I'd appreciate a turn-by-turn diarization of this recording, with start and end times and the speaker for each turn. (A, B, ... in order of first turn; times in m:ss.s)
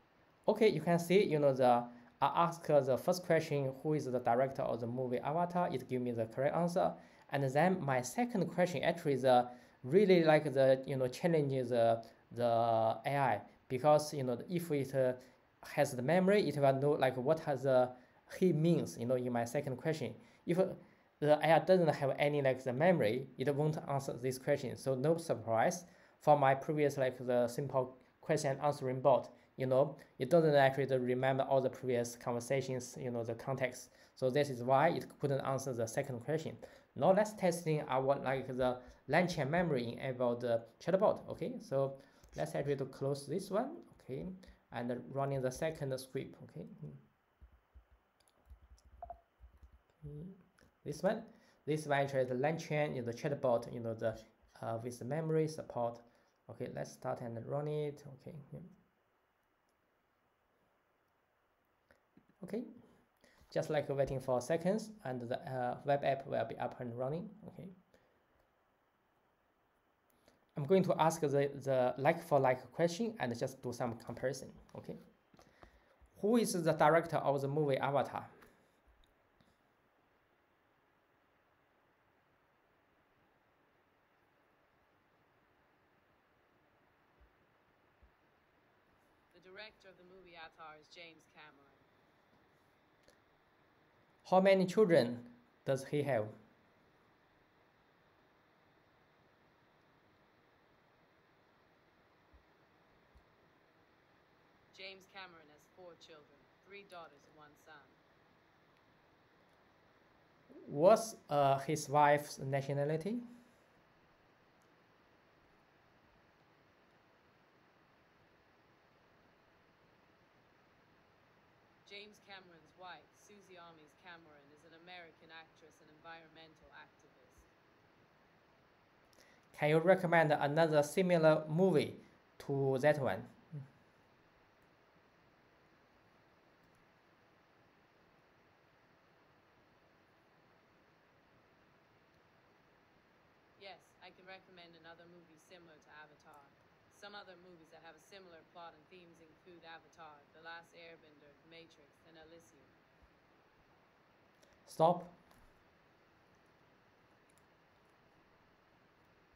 0:00.5-0:47.0 A
0:50.0-0:58.7 A
1:02.4-1:02.7 A
1:03.5-1:07.7 A
1:10.6-1:15.0 A
1:16.2-1:18.3 A
1:29.3-1:31.9 B
1:34.2-1:36.4 A
1:44.7-1:48.0 B
1:50.5-1:53.2 A
2:01.8-2:07.5 B
2:09.5-2:13.4 A
2:23.6-2:32.7 B
2:34.7-2:35.2 A